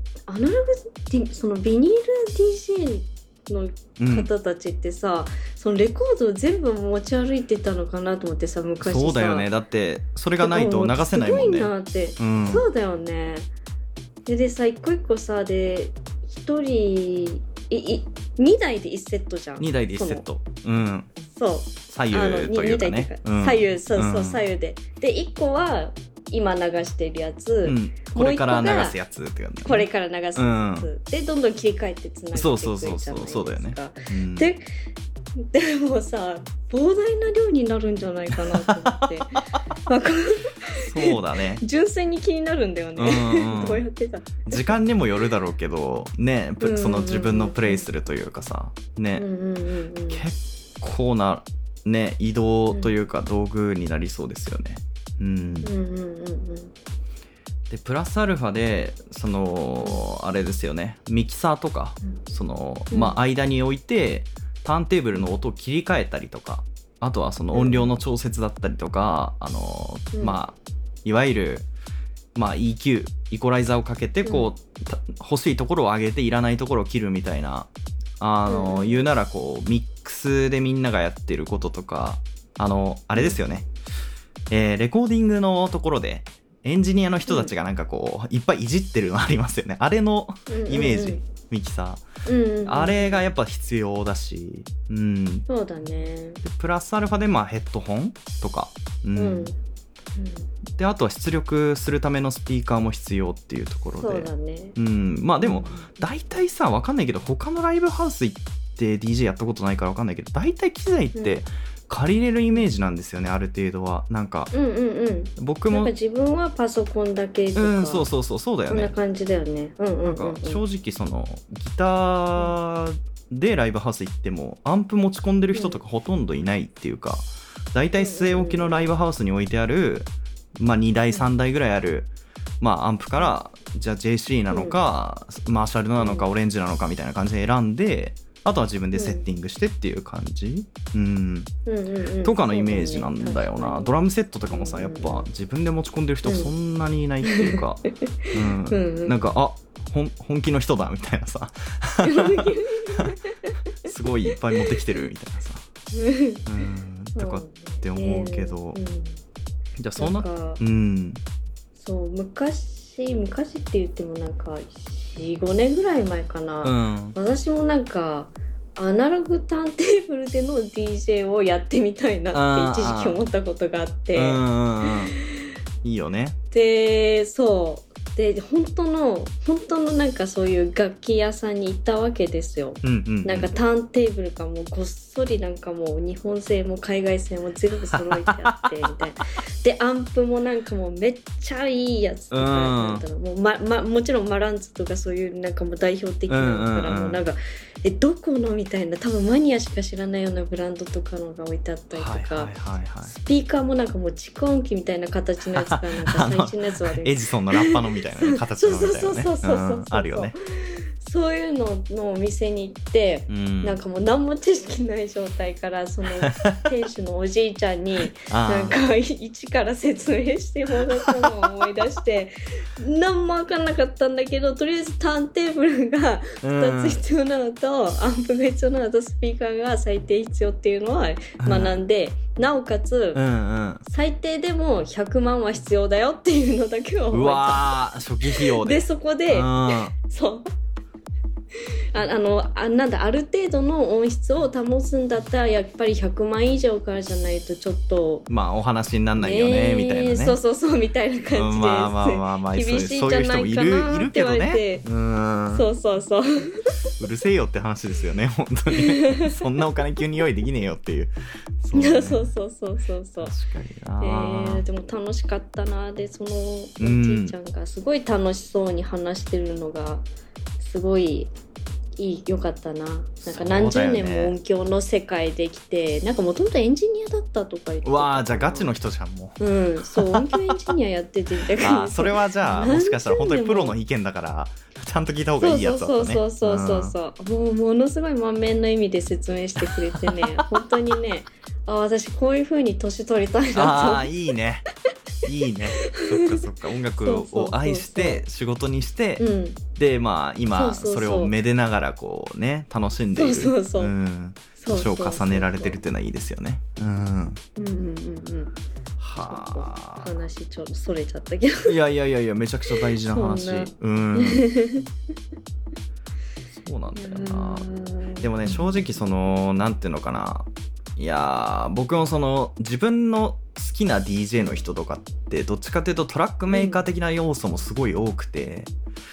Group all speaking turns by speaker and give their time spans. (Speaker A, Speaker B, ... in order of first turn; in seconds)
Speaker A: 0.3-9.5, 10.4-13.5, 14.2-20.2, 21.4-28.9, 29.6-34.6, 35.4-44.8, 46.6-47.9, 49.1-50.2, 55.6-56.7, 62.9-63.2, 67.5-67.9, 70.1-70.4, 74.2-74.5, 78.5-79.1, 87.3-87.5, 90.5-91.2, 92.2-93.2, 95.5-96.4, 99.2-99.6, 100.2-100.5, 104.0-104.8, 105.4-105.9, 111.1-111.4, 114.5-118.1, 118.7-120.6, 125.5-125.8, 128.0-128.9, 134.5-134.8, 136.0-136.3, 138.9-139.2, 141.7-143.9, 144.5-145.3, 146.2-146.5, 147.2-147.6, 148.7-149.3, 152.0-153.5, 154.3-154.6, 155.9-156.4, 157.2-159.2, 160.0-160.6, 161.8-175.1, 176.5-202.5, 203.0-233.2, 233.9-240.5, 241.9-248.3, 249.2-254.9, 255.5-256.7, 258.7-259.5, 261.7-263.4, 264.0-270.1, 270.6-271.3, 272.0-278.7, 279.4-283.8, 285.4-294.1, 295.9-296.4, 297.0-298.2, 299.2-299.6, 300.5-301.3, 303.1-303.9, 304.6-305.8, 307.6-308.5, 309.2-311.7, 313.0-314.9, 316.9-318.7, 326.5-326.8
Speaker B: 4.0-4.3, 8.8-12.6, 19.6-21.1, 21.9-24.4, 27.6-30.9, 32.4-34.5, 38.5-39.0, 40.7-41.6, 43.0-43.8, 44.4-49.2, 50.1-55.7, 57.7-71.7, 72.3-83.7, 84.5-92.0, 92.6-95.5, 96.4-99.5, 100.7-114.5, 115.4-115.9, 117.5-118.9, 120.0-132.1, 132.6-141.5, 142.2-153.1, 153.9-155.6, 156.4-158.8, 159.8-161.2, 166.6-167.2, 172.3-173.2, 174.1-175.1, 175.8-176.4, 182.8-183.6, 187.9-188.9, 192.3-193.0, 196.3-197.2, 201.9-203.1, 205.6-210.3, 213.3-213.8, 216.2-216.6, 218.2-218.8, 221.0-221.6, 226.4-227.0, 231.4-231.8, 233.1-233.8, 237.1-239.9, 248.3-250.4, 251.3-255.6, 257.0-262.3, 263.2-264.6, 266.8-267.4, 273.2-274.4, 277.8-279.4, 280.0-280.6, 281.6-286.9, 289.6-290.4, 293.5-294.6, 295.2-307.4, 309.0-310.1, 311.6-314.5, 316.5-317.7, 318.2-328.7